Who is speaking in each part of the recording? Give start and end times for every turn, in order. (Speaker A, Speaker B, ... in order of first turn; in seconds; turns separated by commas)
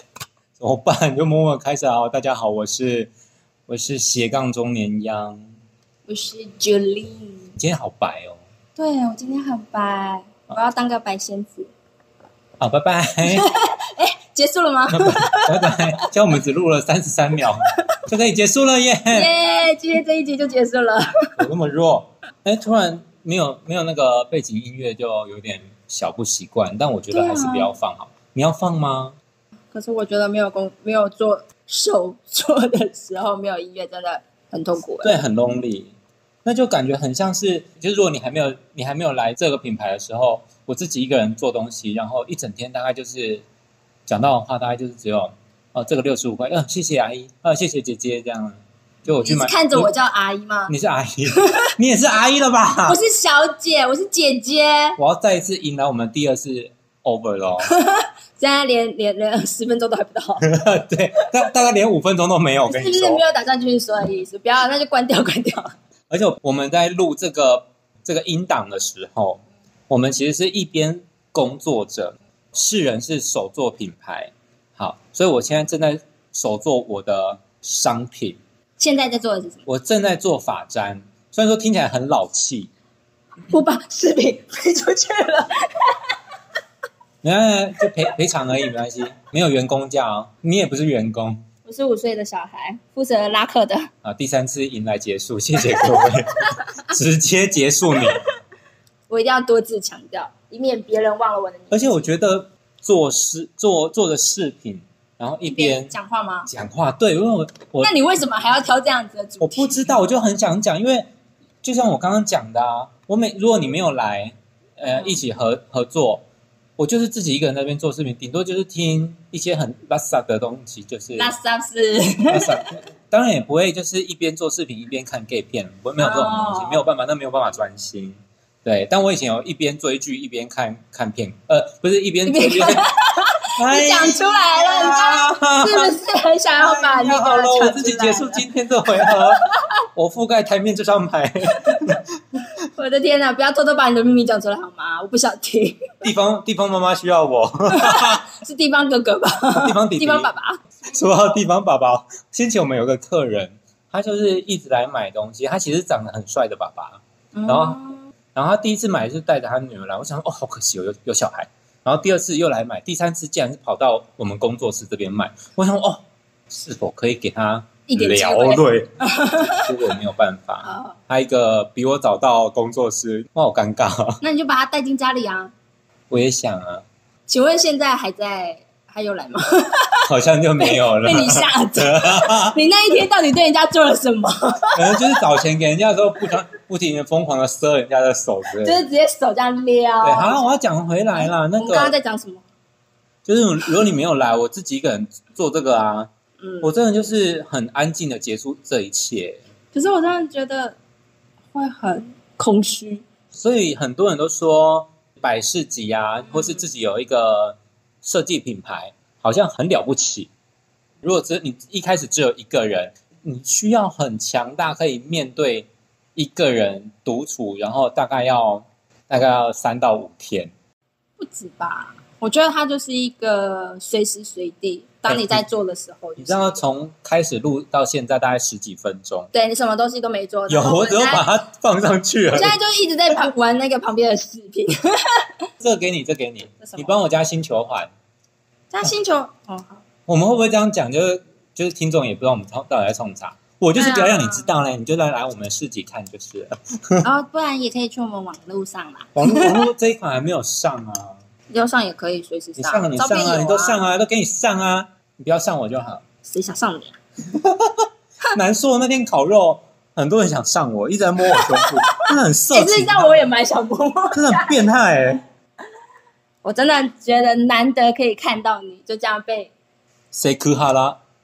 Speaker A: 0.6-3.1, Speaker A: 3.7-5.4, Speaker B: 6.1-7.5, Speaker A: 7.6-8.4, Speaker B: 8.8-11.7, Speaker A: 12.6-13.5, Speaker B: 13.2-16.0, Speaker A: 14.9-19.3, Speaker B: 19.1-21.4, Speaker A: 21.4-29.2, Speaker B: 27.1-27.7, Speaker B: 29.7-35.2, Speaker A: 35.0-35.9, Speaker A: 36.5-43.5, Speaker A: 44.1-49.9, Speaker B: 49.2-50.7, Speaker A: 50.7-53.0, Speaker B: 51.3-51.7, Speaker B: 52.9-55.0, Speaker A: 55.0-57.7, Speaker B: 57.6-60.5, Speaker A: 60.4-63.2, Speaker B: 62.7-65.7, Speaker A: 66.1-78.4, Speaker B: 78.8-79.7, Speaker A: 79.7-82.7, Speaker B: 83.5-85.6, Speaker A: 87.2-91.4, Speaker B: 91.7-93.9, Speaker A: 94.0-98.2, Speaker B: 95.9-96.7, Speaker B: 99.1-101.8, Speaker A: 101.7-105.9, Speaker B: 105.5-106.5, Speaker A: 106.5-107.9, Speaker B: 107.8-109.9, Speaker A: 109.4-111.1, Speaker A: 111.6-116.2, Speaker A: 116.8-121.3, Speaker B: 121.2-122.6, Speaker A: 122.3-132.9, Speaker B: 126.0-126.8, Speaker B: 132.3-139.4, Speaker A: 133.6-136.0, Speaker A: 136.6-139.4, Speaker A: 139.9-142.4, Speaker B: 142.8-145.9, Speaker A: 146.0-148.2, Speaker B: 147.7-150.6, Speaker A: 149.6-150.3, Speaker A: 150.9-157.8, Speaker B: 157.3-158.1, Speaker A: 158.3-168.9, Speaker B: 167.9-169.7, Speaker A: 169.5-174.2, Speaker B: 170.6-171.0, Speaker B: 174.2-175.5, Speaker A: 176.1-176.9, Speaker B: 177.3-180.0, Speaker A: 180.1-182.6, Speaker B: 180.6-185.2, Speaker A: 184.8-188.8, Speaker B: 188.6-190.5, Speaker A: 190.0-191.9, Speaker B: 191.2-192.4, Speaker A: 193.2-196.1, Speaker B: 196.4-196.7, Speaker A: 196.6-199.4, Speaker B: 199.7-200.8, Speaker B: 201.5-203.1, Speaker A: 203.3-210.3, Speaker B: 206.3-206.7, Speaker A: 211.0-220.5, Speaker B: 221.2-226.6, Speaker A: 225.1-225.4, Speaker A: 226.2-229.3, Speaker B: 229.3-231.2, Speaker A: 230.5-232.6, Speaker B: 232.3-235.3, Speaker A: 235.6-237.9, Speaker B: 236.6-237.0, Speaker B: 238.7-239.8, Speaker A: 240.1-247.1, Speaker B: 243.8-244.5, Speaker B: 247.0-249.7, Speaker A: 249.2-251.2, Speaker B: 251.5-253.8, Speaker A: 252.6-256.0, Speaker B: 256.2-256.9, Speaker A: 257.3-263.3, Speaker B: 261.3-264.6, Speaker A: 264.1-265.2, Speaker B: 266.4-269.5, Speaker A: 270.1-271.0